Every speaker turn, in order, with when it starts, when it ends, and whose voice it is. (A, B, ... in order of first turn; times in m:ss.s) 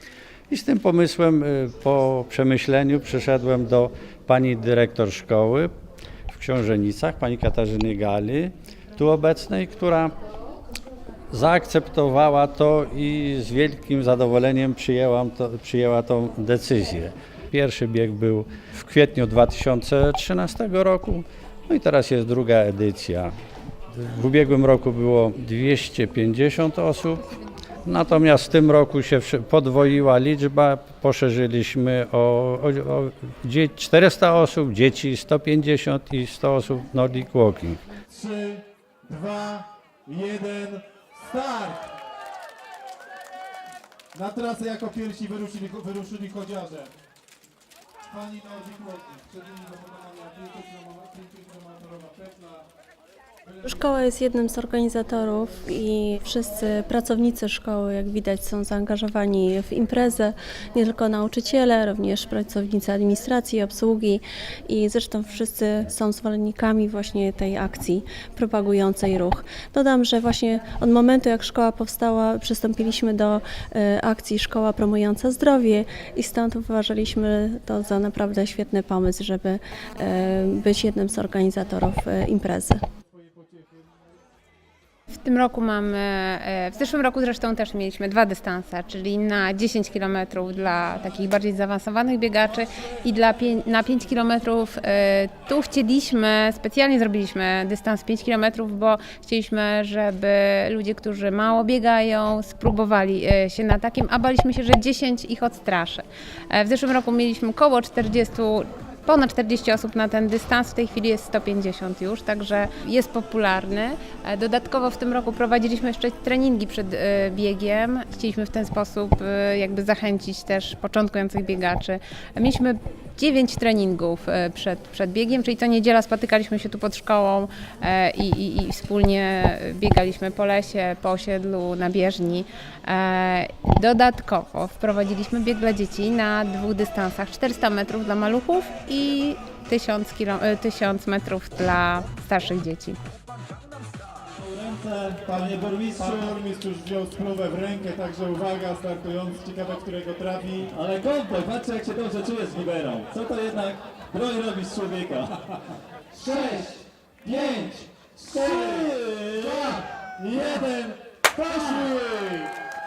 0:00.5-0:05.7 A
0:06.3-0:10.1 A
0:11.3-0:23.3 A
0:23.9-0:27.3 A
0:27.8-0:37.8 A
0:38.1-0:41.9 B
0:44.1-0:46.9 B
0:48.1-0:52.6 B
0:53.6-1:22.8 C
1:25.1-2:23.0 D
2:24.4-2:26.3 E
2:25.2-2:30.7 B
2:30.7-2:35.3 E
2:36.1-2:41.9 E
2:38.2-2:42.5 B